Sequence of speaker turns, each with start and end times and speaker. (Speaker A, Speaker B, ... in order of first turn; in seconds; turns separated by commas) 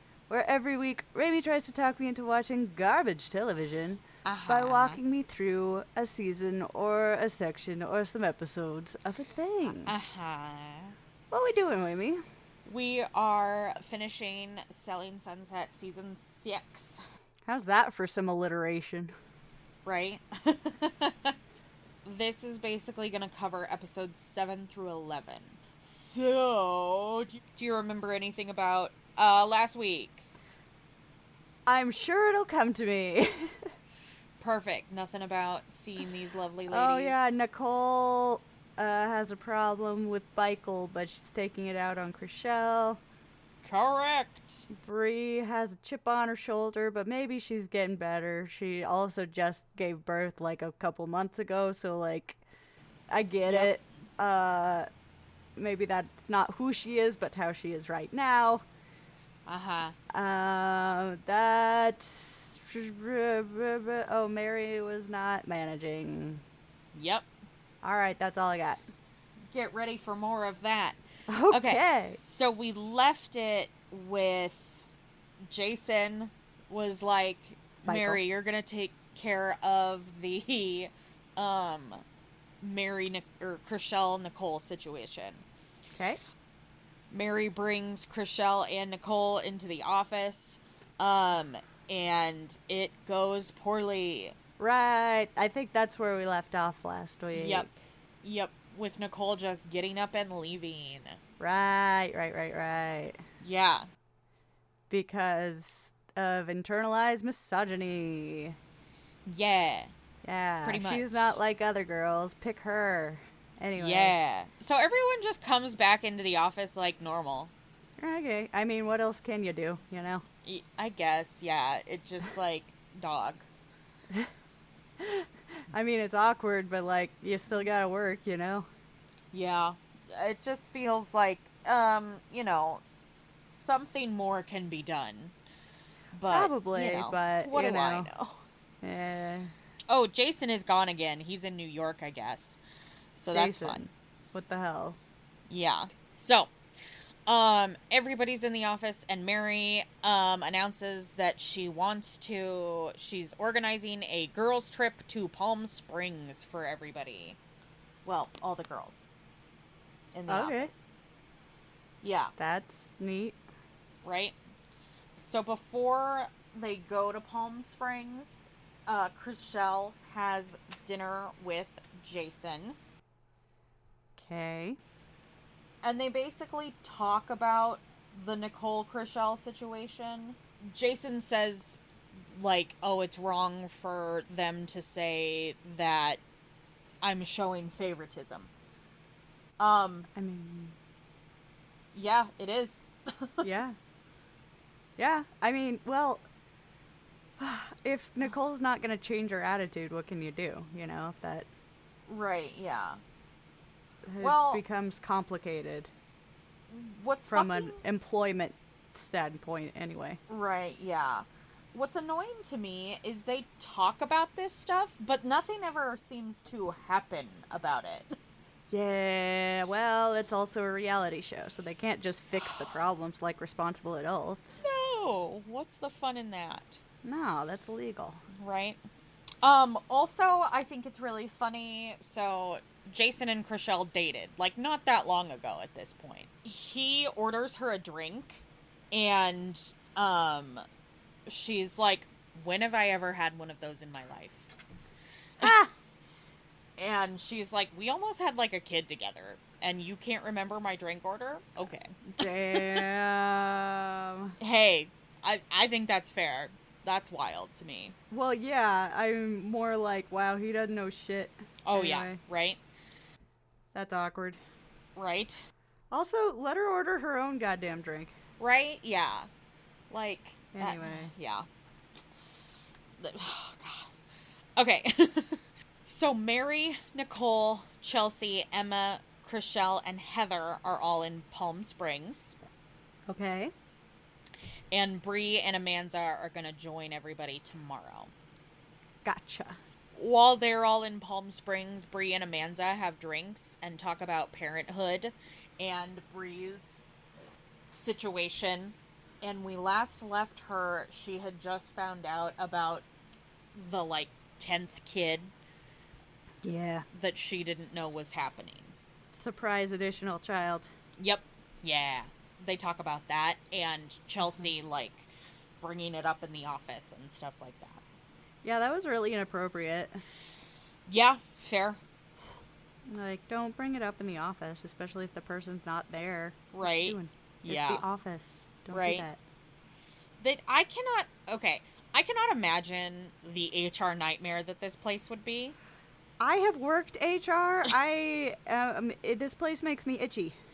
Speaker A: 0.3-9.9, Speaker B: 4.2-5.0, Speaker B: 9.8-11.0, Speaker A: 11.3-12.2, Speaker B: 12.7-17.0, Speaker A: 17.5-19.1, Speaker B: 19.9-21.4, Speaker B: 22.1-30.2, Speaker A: 31.7-33.7, Speaker B: 34.4-37.4, Speaker A: 36.7-43.0, Speaker B: 43.6-44.7, Speaker A: 44.7-52.4, Speaker A: 53.1-54.9, Speaker B: 53.5-53.7, Speaker A: 55.6-58.6, Speaker B: 59.5-60.0, Speaker A: 60.1-66.4, Speaker B: 66.9-67.3, Speaker A: 67.8-68.8, Speaker B: 69.5-71.0, Speaker A: 71.3-72.2, Speaker B: 71.5-74.8, Speaker B: 75.5-82.0, Speaker A: 77.8-78.2, Speaker B: 82.6-85.4, Speaker A: 86.0-86.2, Speaker B: 87.1-94.3, Speaker A: 94.6-97.7, Speaker B: 97.3-97.7, Speaker B: 98.2-101.2, Speaker A: 101.4-103.2, Speaker B: 103.4-103.9, Speaker A: 104.9-108.6, Speaker B: 109.3-109.9, Speaker A: 110.2-114.1, Speaker B: 110.6-111.4, Speaker B: 113.8-117.5, Speaker A: 118.0-120.2, Speaker B: 120.5-123.5, Speaker A: 125.0-128.7, Speaker B: 129.3-132.8, Speaker B: 133.5-135.3, Speaker B: 136.1-138.4, Speaker A: 136.3-138.1, Speaker A: 138.8-139.5, Speaker B: 139.9-142.6, Speaker B: 143.2-143.9, Speaker A: 143.3-145.0, Speaker B: 145.5-146.5, Speaker B: 147.3-157.4, Speaker B: 158.1-159.1, Speaker B: 160.1-160.9, Speaker A: 160.3-160.7, Speaker B: 162.0-162.3, Speaker A: 162.4-163.4, Speaker B: 164.0-164.4, Speaker B: 165.2-172.8, Speaker A: 174.2-174.8, Speaker B: 175.8-186.2, Speaker B: 187.0-188.5, Speaker B: 189.6-190.1, Speaker A: 190.1-190.8, Speaker B: 191.9-193.4, Speaker A: 193.4-193.8, Speaker A: 195.0-196.2, Speaker A: 197.4-201.5, Speaker B: 202.1-203.0, Speaker A: 204.1-205.9, Speaker B: 204.2-204.6, Speaker B: 206.7-207.8, Speaker A: 207.3-210.2, Speaker B: 210.3-218.2, Speaker A: 218.7-224.4, Speaker B: 224.6-226.8, Speaker A: 227.0-228.2, Speaker B: 228.4-228.8, Speaker B: 229.4-240.6, Speaker B: 241.3-244.5, Speaker A: 245.4-245.7, Speaker B: 246.8-252.8, Speaker A: 252.1-254.4, Speaker B: 254.4-258.0, Speaker A: 258.1-262.2, Speaker B: 261.6-262.6, Speaker A: 263.7-264.4, Speaker B: 265.0-265.4, Speaker A: 265.9-268.1, Speaker B: 268.4-269.3, Speaker B: 269.9-271.5, Speaker A: 270.5-271.1, Speaker B: 273.0-273.9, Speaker B: 274.6-282.4, Speaker A: 283.1-283.5, Speaker B: 284.7-288.1, Speaker A: 289.1-289.6, Speaker B: 289.9-296.9, Speaker B: 297.7-302.9, Speaker B: 303.5-305.3, Speaker A: 306.4-306.9, Speaker B: 306.9-308.7, Speaker A: 309.1-310.7, Speaker B: 311.0-315.1, Speaker B: 315.6-317.8, Speaker A: 318.4-320.0, Speaker B: 320.9-321.8, Speaker A: 322.9-329.2, Speaker B: 326.5-327.8, Speaker B: 328.7-329.1, Speaker B: 330.2-335.6, Speaker A: 336.2-340.4